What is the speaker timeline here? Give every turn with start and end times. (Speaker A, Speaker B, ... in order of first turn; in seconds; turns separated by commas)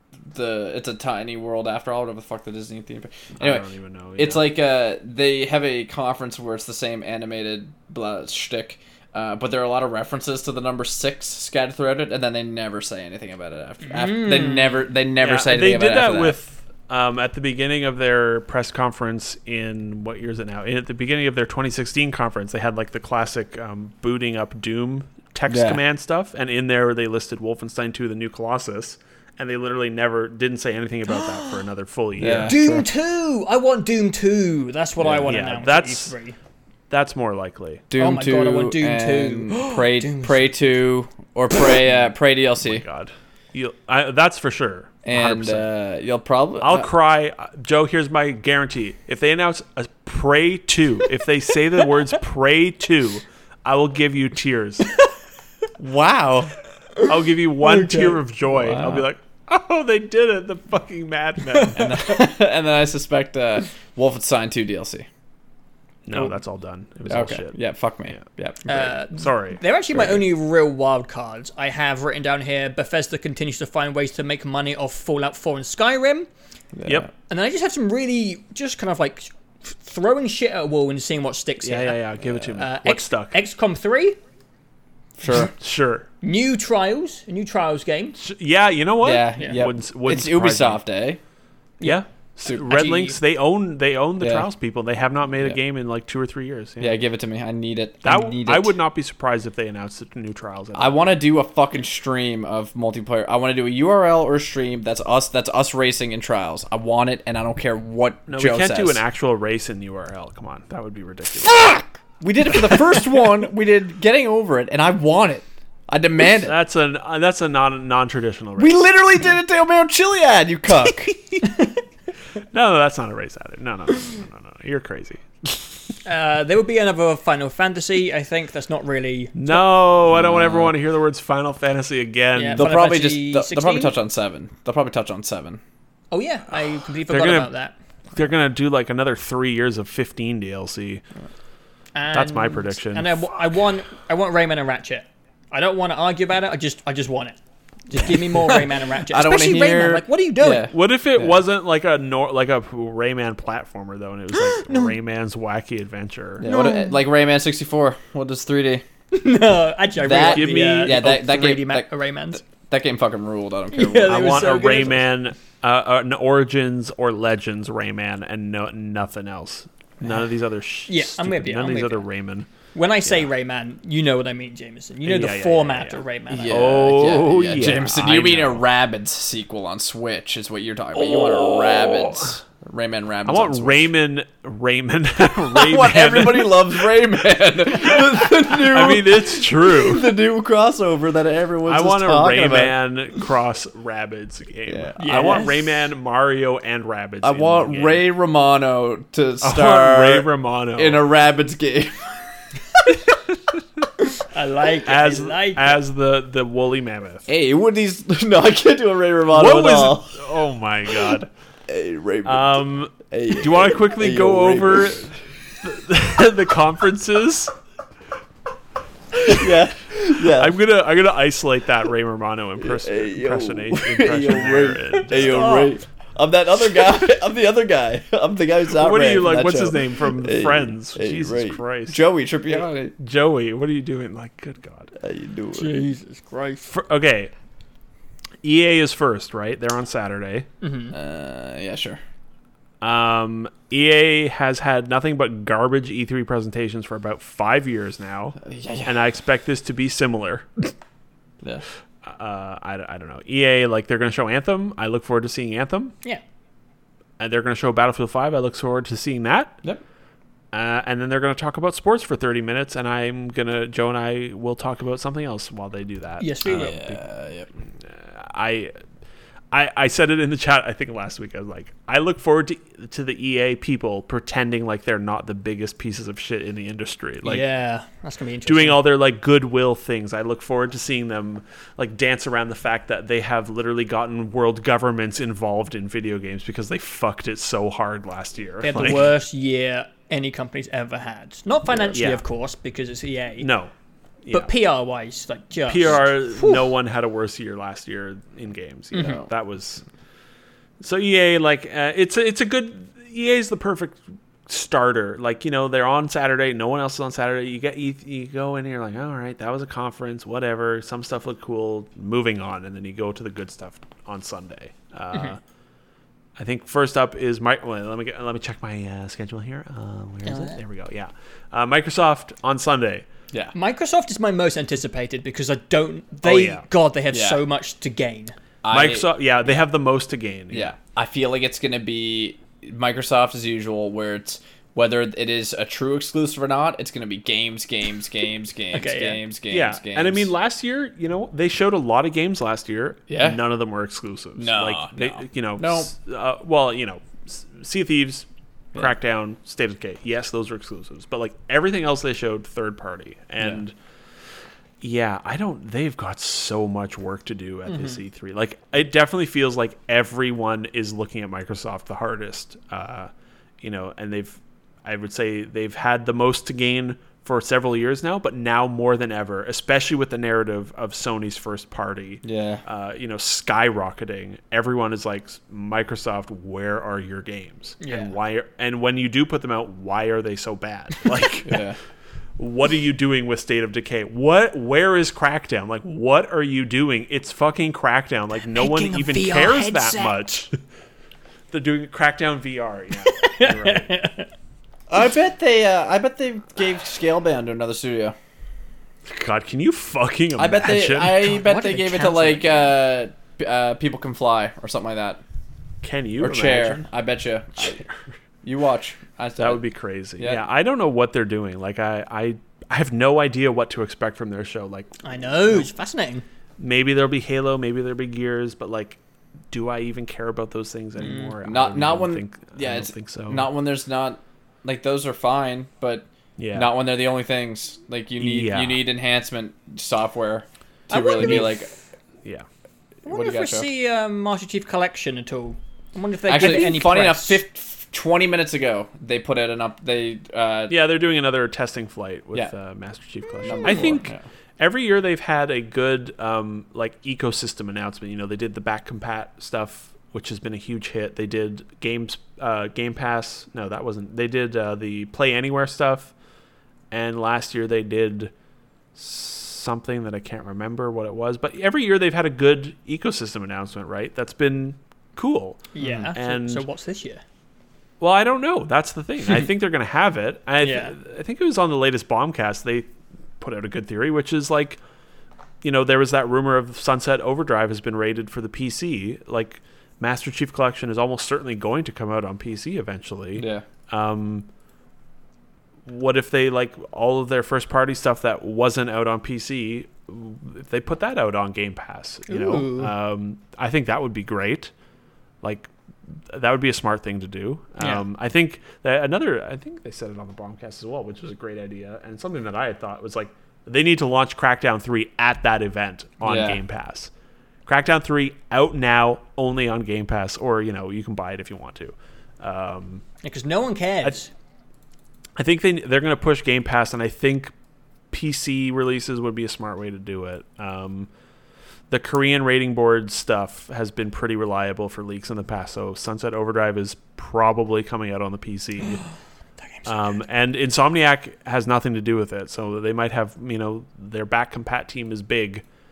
Speaker A: 0.3-3.7, Speaker B: 3.4-4.5, Speaker A: 4.2-16.4, Speaker C: 13.9-14.8, Speaker B: 15.2-32.6, Speaker A: 25.5-25.8, Speaker C: 31.1-31.6, Speaker A: 32.2-32.9, Speaker C: 32.5-36.4, Speaker A: 35.0-35.3, Speaker B: 35.2-36.1, Speaker B: 36.9-37.9, Speaker A: 37.9-42.8, Speaker C: 38.0-40.6, Speaker B: 42.6-45.7, Speaker A: 45.1-46.9, Speaker B: 46.6-55.0, Speaker A: 55.8-56.5, Speaker B: 57.0-62.1, Speaker C: 57.6-58.2, Speaker A: 58.5-59.1, Speaker C: 61.5-61.8, Speaker A: 61.8-65.1, Speaker B: 66.1-67.6, Speaker A: 67.1-68.9, Speaker C: 68.7-76.3, Speaker B: 68.8-70.2, Speaker A: 76.7-77.1, Speaker C: 77.3-84.2, Speaker B: 81.6-83.3, Speaker A: 85.2-85.5, Speaker B: 85.3-86.1, Speaker C: 86.2-88.2, Speaker B: 88.2-90.8, Speaker A: 89.0-91.2, Speaker C: 91.8-93.2, Speaker B: 91.8-97.0, Speaker A: 94.2-94.5, Speaker A: 96.8-98.8, Speaker B: 98.0-101.2, Speaker A: 100.8-109.0, Speaker B: 108.3-111.8, Speaker A: 111.5-116.5, Speaker B: 116.4-118.8, Speaker A: 118.6-121.2, Speaker B: 122.5-125.6, Speaker C: 126.0-129.6, Speaker B: 129.3-132.7, Speaker A: 130.1-130.8, Speaker C: 132.3-134.0, Speaker A: 132.6-135.6, Speaker C: 136.1-137.8, Speaker B: 137.1-137.5, Speaker B: 138.2-141.0, Speaker C: 141.9-147.4, Speaker B: 142.1-143.3, Speaker C: 147.9-150.7, Speaker A: 148.1-151.4, Speaker B: 150.7-156.5, Speaker C: 154.4-154.9, Speaker A: 156.4-158.8, Speaker C: 156.4-157.0, Speaker C: 159.1-162.4, Speaker A: 160.0-164.5, Speaker B: 160.1-161.1, Speaker C: 163.7-165.0, Speaker B: 164.1-172.5, Speaker C: 170.9-172.0, Speaker C: 172.7-176.8, Speaker B: 175.1-178.6, Speaker A: 176.3-183.9, Speaker B: 181.0-182.3, Speaker B: 183.3-186.9, Speaker A: 185.2-192.8, Speaker B: 187.9-190.2, Speaker B: 191.7-198.1, Speaker A: 194.7-195.6, Speaker C: 195.0-195.6, Speaker A: 197.2-202.8, Speaker B: 199.4-201.1, Speaker C: 204.3-205.8, Speaker B: 204.9-207.3, Speaker A: 207.3-210.2, Speaker B: 209.3-211.3, Speaker A: 211.7-215.1, Speaker B: 212.2-217.6, Speaker A: 219.2-220.6, Speaker B: 220.2-225.8, Speaker A: 222.6-232.9, Speaker C: 225.4-225.7, Speaker B: 228.7-232.0, Speaker B: 232.6-234.9, Speaker A: 235.0-235.8, Speaker C: 235.6-236.7, Speaker B: 236.7-237.3, Speaker B: 238.4-240.5, Speaker C: 240.6-240.9, Speaker A: 240.9-242.0, Speaker B: 242.8-250.7, Speaker A: 248.4-249.0, Speaker B: 252.0-255.9, Speaker B: 257.2-259.6, Speaker B: 260.5-267.0, Speaker C: 266.2-266.8, Speaker A: 266.5-267.5, Speaker B: 267.8-268.8, Speaker B: 269.5-277.4, Speaker C: 277.2-278.8, Speaker B: 278.5-289.1, Speaker C: 288.6-293.5, Speaker B: 291.8-292.2, Speaker B: 293.4-293.7, Speaker B: 294.2-294.5, Speaker C: 294.3-296.7, Speaker B: 295.7-299.8, Speaker C: 298.9-299.2, Speaker A: 298.9-299.3, Speaker B: 300.8-315.4, Speaker B: 316.4-323.1, Speaker C: 320.3-320.6, Speaker C: 323.5-328.4, Speaker B: 326.2-326.7, Speaker A: 327.1-327.4, Speaker A: 328.6-329.1, Speaker B: 328.7-330.7, Speaker A: 330.5-340.3, Speaker C: 338.7-339.2, Speaker B: 339.5-353.8, Speaker A: 343.1-343.4, Speaker A: 344.4-345.9, Speaker B: 354.8-363.1, Speaker B: 363.6-381.7, Speaker A: 372.2-372.6, Speaker C: 377.8-378.1, Speaker A: 381.5-381.8, Speaker B: 382.4-390.5, Speaker C: 388.5-390.2, Speaker B: 391.5-393.9, Speaker C: 393.1-394.3, Speaker A: 394.9-398.1, Speaker B: 399.1-401.3, Speaker A: 400.4-405.2, Speaker C: 401.1-402.7, Speaker B: 405.8-406.8, Speaker A: 406.2-407.8, Speaker B: 407.6-407.9, Speaker A: 408.4-409.6, Speaker B: 409.4-415.6, Speaker C: 415.0-416.2, Speaker B: 416.6-419.0, Speaker B: 419.5-423.5, Speaker C: 421.0-421.3, Speaker A: 421.4-431.7, Speaker B: 426.4-426.7, Speaker B: 428.2-428.8, Speaker C: 430.9-431.7, Speaker B: 431.2-431.5, Speaker C: 433.1-437.4, Speaker A: 433.1-433.7, Speaker A: 436.3-440.8, Speaker B: 440.7-456.1, Speaker A: 443.4-444.2, Speaker B: 456.9-458.3, Speaker B: 458.9-466.6, Speaker C: 465.8-467.2, Speaker A: 465.8-466.1, Speaker B: 468.0-472.9, Speaker C: 470.6-470.9, Speaker B: 473.4-474.8, Speaker B: 475.6-484.5, Speaker A: 483.4-483.7, Speaker B: 485.9-494.7, Speaker C: 492.3-492.9, Speaker B: 495.4-495.7, Speaker B: 496.3-507.1, Speaker A: 506.2-506.6, Speaker B: 507.7-513.0, Speaker C: 513.2-514.3, Speaker B: 515.4-517.5, Speaker B: 518.1-521.1, Speaker B: 521.9-529.0, Speaker B: 529.9-535.6